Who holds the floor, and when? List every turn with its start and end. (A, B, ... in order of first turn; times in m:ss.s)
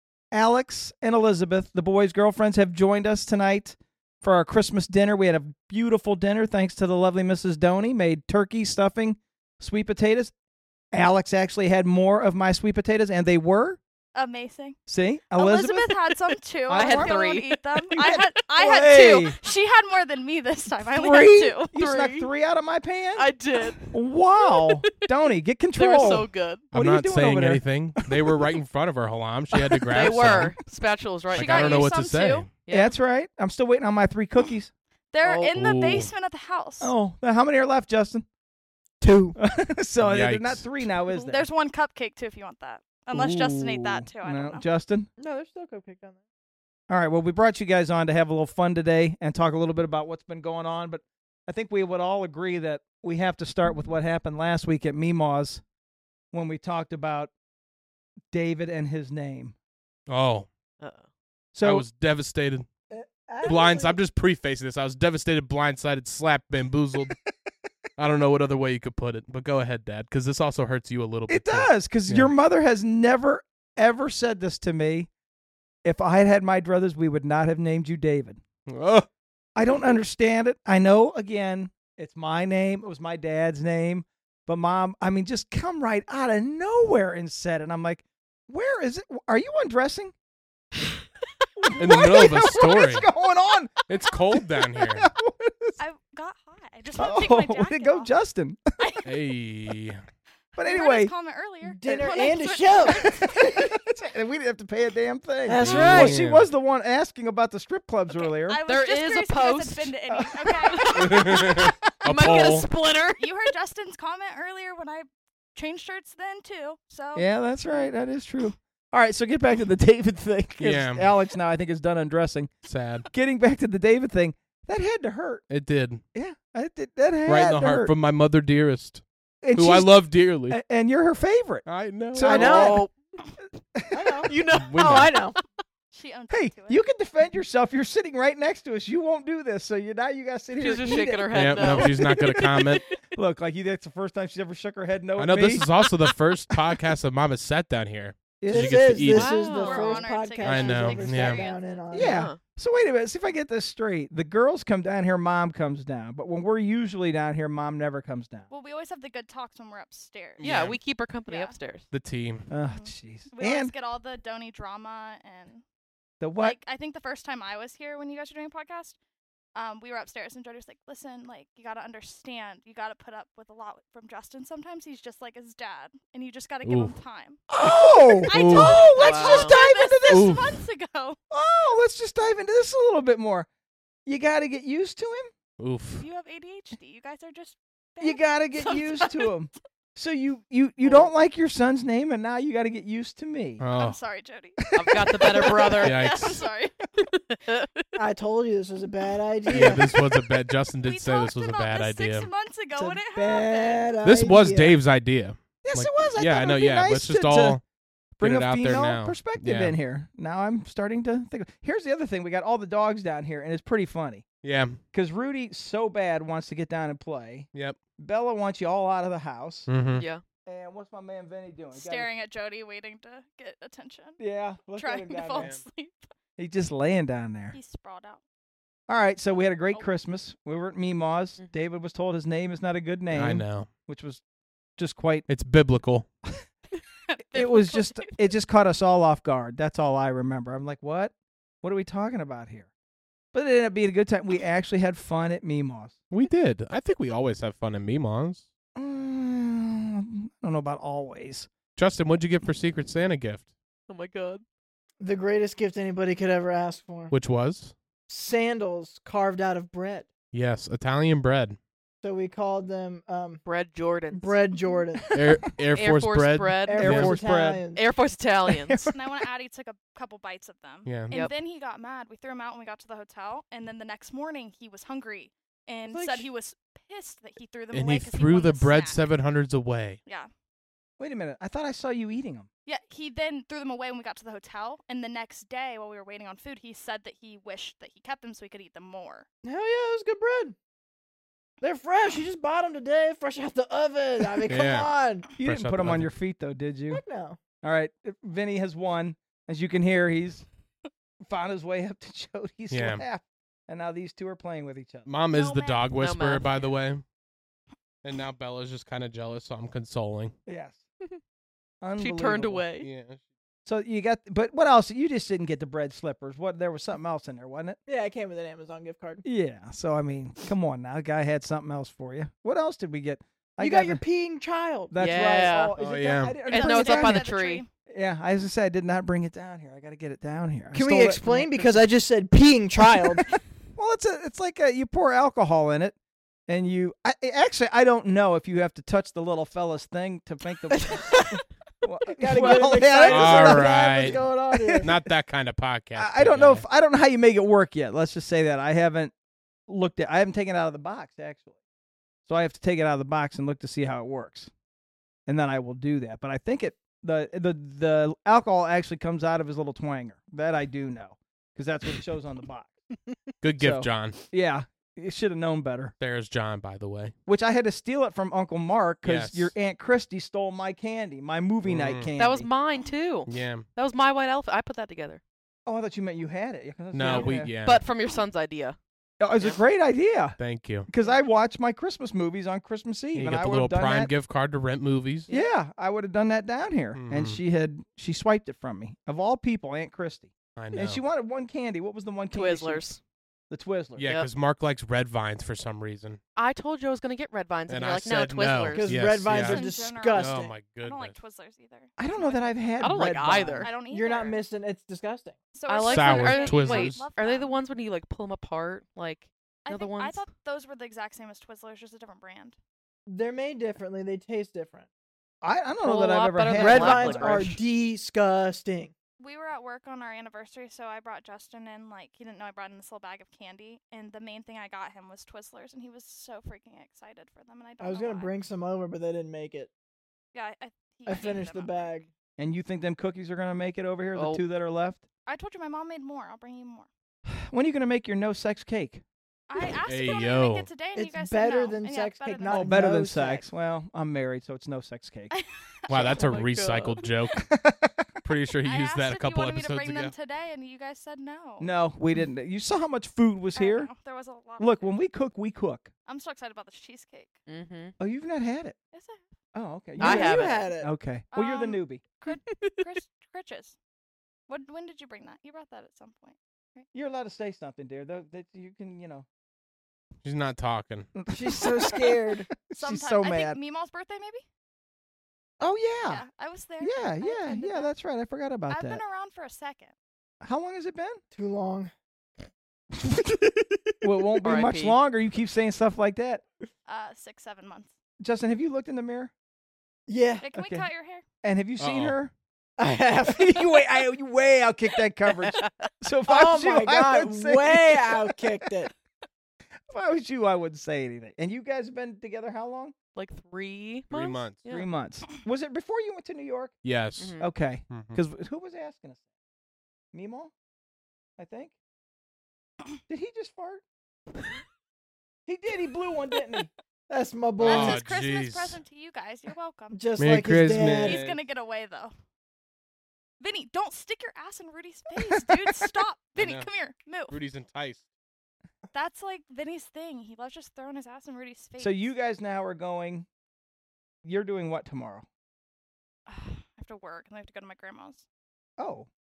0:00.3-0:10.3 A
0:10.9-0:13.8 A
0:14.1-0:14.8 B
0:14.9-0:16.0 A
0:15.3-0:21.7 B
0:16.7-0:17.2 A
0:16.7-0:18.0 C
0:17.9-0:19.4 A
0:20.8-0:23.3 A
0:21.6-0:22.3 C
0:23.2-0:24.8 C
0:23.9-0:28.5 A
0:25.8-0:26.6 C
0:26.7-0:30.6 D
0:29.5-0:30.2 A
0:29.9-0:32.0 C
0:31.3-0:32.5 D
0:31.3-0:32.4 B
0:32.6-0:32.9 C
0:32.7-0:34.7 A
0:35.1-0:36.9 B
0:35.2-0:35.5 C
0:35.5-0:36.1 D
0:36.8-0:38.2 A
0:39.0-0:39.3 E
0:39.3-0:41.4 A
0:40.0-0:40.7 D
0:41.1-0:44.6 B
0:43.1-0:45.1 A
0:45.2-0:46.2 E
0:46.9-0:55.6 A
0:56.3-0:57.3 A
0:58.3-0:59.6 A
1:00.1-1:00.5 D
1:00.8-1:01.1 C
1:01.5-1:01.8 A
1:01.6-1:02.7 D
1:02.9-1:04.0 E
1:03.4-1:07.2 D
1:08.0-1:12.3 D
1:11.3-1:15.1 A
1:15.8-1:18.4 A
1:18.6-1:19.1 D
1:19.5-1:30.1 A
1:31.6-1:35.8 A
1:31.8-1:33.1 D
1:33.9-1:35.1 D
1:35.8-1:38.1 B
1:37.0-1:38.9 A
1:38.8-1:39.1 B
1:39.0-1:40.0 D
1:40.6-1:43.7 B
1:40.6-1:41.1 A
1:41.6-1:43.1 E
1:41.8-1:42.3 A
1:42.9-1:48.6 A
1:45.4-1:46.2 E
1:45.6-1:46.5 D
1:48.1-1:51.7 B
1:48.7-1:49.9 C
1:50.1-1:50.9 A
1:50.7-1:53.2 C
1:50.9-1:52.7 D
1:53.2-1:57.3 B
1:57.2-2:02.5 A
2:00.6-2:01.1 D
2:02.6-2:03.0 D
2:03.1-2:05.4 A
2:05.5-2:06.0 D
2:06.1-2:07.9 A
2:07.3-2:09.0 D
2:09.4-2:12.9 A
2:09.5-2:10.6 D
2:11.6-2:12.7 D
2:12.2-2:12.8 E
2:12.4-2:12.9 C
2:13.7-2:14.3 A
2:13.9-2:15.4 E
2:14.3-2:15.4 C
2:14.5-2:15.2 D
2:15.9-2:16.8 B
2:16.3-2:22.4 A
2:20.6-2:23.0 C
2:21.3-2:22.8 D
2:23.1-2:25.7 A
2:25.2-2:29.3 D
2:28.4-2:29.0 A
2:28.4-2:32.2 E
2:29.1-2:30.1 C
2:29.2-2:31.8 B
2:30.4-2:31.4 D
2:31.9-2:38.5 A
2:31.9-2:32.4 C
2:38.5-2:40.5 B
2:40.4-2:40.8 D
2:40.4-2:41.9 C
2:41.2-2:41.6 B
2:41.9-2:42.5 D
2:42.5-2:43.7 A
2:42.6-2:45.6 B
2:46.2-2:46.6 A
2:46.4-2:49.0 B
2:49.5-2:57.4 B
2:56.6-2:57.0 D
2:57.5-3:00.4 A
2:57.6-2:58.3 E
2:58.2-3:01.2 B
2:58.3-2:58.9 D
2:58.8-2:59.6 C
3:00.1-3:00.6 D
3:01.3-3:03.5 A
3:04.0-3:05.3 A
3:05.6-3:06.0 D
3:06.0-3:09.3 B
3:08.0-3:13.6 A
3:10.8-3:11.1 C
3:13.6-3:14.0 D
3:13.7-3:16.8 B
3:14.7-3:15.8 A
3:14.7-3:16.2 C
3:15.8-3:16.4 D
3:17.5-3:17.8 C
3:18.0-3:20.0 E
3:19.5-3:22.3 D
3:20.8-3:24.0 B
3:22.7-3:24.8 E
3:24.0-3:27.6 D
3:25.6-3:27.6 A
3:28.2-3:34.2 A
3:28.2-3:29.8 D
3:34.4-3:34.8 D
3:34.9-3:39.7 A
3:37.5-3:37.8 D
3:39.7-3:40.1 D
3:39.9-3:40.2 C
3:40.4-3:42.1 A
3:41.7-3:44.2 B
3:44.2-3:45.6 A
3:44.8-3:46.1 B
3:45.4-3:45.6 D
3:46.4-3:47.6 A
3:47.5-3:48.2 B
3:48.9-3:54.2 A
3:53.1-3:53.7 D
3:54.8-3:55.3 A
3:55.3-3:56.1 D
3:57.1-3:58.3 B
3:57.3-4:02.7 A
4:03.3-4:06.0 A
4:06.1-4:08.4 D
4:08.8-4:11.5 A
4:11.8-4:13.5 D
4:13.9-4:14.4 C
4:15.0-4:17.1 E
4:17.1-4:17.7 D
4:18.1-4:20.1 E
4:20.3-4:21.6 D
4:22.0-4:23.4 E
4:23.4-4:24.4 C
4:24.1-4:25.1 E
4:25.1-4:27.1 D
4:25.7-4:27.2 C
4:26.6-4:27.8 E
4:26.8-4:27.6 A
4:27.7-4:28.8 C
4:28.5-4:29.0 A
4:28.9-4:39.0 B
4:30.8-4:31.1 D
4:37.7-4:40.0 D
4:41.0-4:42.5 A
4:42.6-4:49.2 B
4:49.4-4:50.6 E
4:51.6-4:55.3 E
4:54.4-4:56.1 D
4:55.4-4:57.0 A
4:56.9-4:57.4 E
4:57.6-5:00.4 A
5:01.3-5:05.1 A
5:02.7-5:03.0 D
5:05.0-5:07.0 D
5:05.3-5:05.9 B
5:05.9-5:06.7 C
5:08.0-5:10.4 D
5:10.4-5:10.8 A
5:11.8-5:12.7 A
5:12.0-5:12.9 C
5:12.8-5:13.2 D
5:13.6-5:17.8 A
5:17.9-5:19.2 E
5:19.2-5:24.0 A
5:23.6-5:24.9 E
5:24.9-5:27.3 A
5:25.0-5:25.7 C
5:25.8-5:26.4 D
5:26.4-5:27.6 C
5:26.5-5:27.7 B
5:27.9-5:31.8 A
5:30.7-5:33.3 E
5:33.7-5:36.0 A
5:36.5-5:45.0 A
5:40.7-5:41.4 E
5:42.1-5:44.9 E
5:43.0-5:44.2 D
5:44.8-5:46.6 D
5:46.0-5:49.1 A
5:49.7-5:51.5 A
5:52.2-5:54.5 A
5:55.3-6:02.8 A
6:03.4-6:04.2 D
6:03.6-6:05.9 A
6:06.0-6:07.1 D
6:07.2-6:12.5 A
6:09.0-6:09.5 D
6:11.6-6:12.1 D
6:12.2-6:15.2 C
6:13.2-6:13.7 D
6:15.6-6:17.5 A
6:16.9-6:17.8 D
6:17.1-6:18.8 C
6:19.2-6:24.1 A
6:20.4-6:20.9 D
6:23.1-6:25.3 D
6:25.3-6:32.8 A
6:26.9-6:27.4 D
6:30.5-6:31.0 D
6:32.3-6:33.0 C
6:33.5-6:34.2 A
6:34.0-6:36.2 D
6:36.4-6:38.9 C
6:37.7-6:41.2 D
6:38.7-6:40.5 E
6:39.3-6:42.5 B
6:42.0-6:43.7 A
6:42.8-6:43.7 C
6:43.6-6:44.4 B
6:43.8-6:45.4 E
6:45.5-6:47.6 B
6:45.7-6:50.2 C
6:45.8-6:47.0 D
6:49.6-6:52.6 B
6:53.1-6:54.9 E
6:55.4-6:57.6 A
6:55.8-6:57.6 C
6:56.5-6:58.9 E
6:59.2-7:08.3 B
7:07.8-7:09.7 E
7:10.3-7:11.9 B
7:11.0-7:12.1 E
7:12.4-7:15.0 A
7:14.1-7:14.4 C
7:15.2-7:16.9 B
7:17.2-7:19.0 A
7:19.5-7:22.7 B
7:19.8-7:20.7 D
7:20.9-7:23.5 E
7:22.5-7:25.3 A
7:25.3-7:26.2 B
7:25.9-7:27.4 D
7:26.0-7:27.0 C
7:27.4-7:28.1 A
7:28.2-7:30.1 D
7:28.6-7:31.7 B
7:31.6-7:33.9 A
7:33.5-7:35.0 B
7:34.6-7:35.9 A
7:36.0-7:37.4 B
7:37.5-7:37.9 C
7:38.0-7:38.8 A
7:38.9-7:39.3 B
7:39.5-7:42.0 A
7:40.0-7:40.6 C
7:40.0-7:40.9 E
7:41.3-7:43.8 B
7:42.2-7:42.8 C
7:44.5-7:46.8 B
7:46.9-7:49.2 A
7:50.2-7:51.1 D
7:51.1-7:53.6 A
7:51.4-7:52.5 E
7:52.7-7:54.4 B
7:55.6-7:56.2 A
7:56.0-7:57.9 B
7:56.8-7:59.0 A
7:58.7-7:59.9 B
8:00.4-8:01.2 A
8:01.3-8:01.9 E
8:04.0-8:06.4 A
8:04.4-8:05.0 C
8:06.8-8:07.9 B
8:08.2-8:09.3 A
8:10.1-8:10.5 E
8:10.4-8:11.2 B
8:10.5-8:10.9 A
8:11.4-8:12.3 A
8:11.8-8:12.2 D
8:12.8-8:14.1 E
8:13.3-8:18.4 A
8:16.2-8:18.9 E
8:19.9-8:22.9 A
8:23.1-8:24.9 C
8:24.1-8:24.6 D
8:24.6-8:26.7 A
8:26.8-8:27.4 D
8:27.2-8:27.5 C
8:27.4-8:29.2 A
8:27.9-8:28.2 D
8:30.1-8:30.5 A
8:31.4-8:31.7 A
8:33.1-8:33.8 A
8:35.4-8:36.7 A
8:37.1-8:38.0 E
8:37.6-8:38.8 D
8:37.6-8:40.0 B
8:39.9-8:41.2 E
8:40.2-8:41.2 D
8:40.9-8:42.1 B
8:41.1-8:41.4 A
8:43.4-8:47.4 B
8:45.2-8:45.5 A
8:46.4-8:46.7 D
8:47.3-8:48.0 D
8:48.9-8:52.1 B
8:51.8-8:53.3 A
8:54.2-8:55.2 A
8:56.3-8:58.2 B
8:58.8-8:59.1 A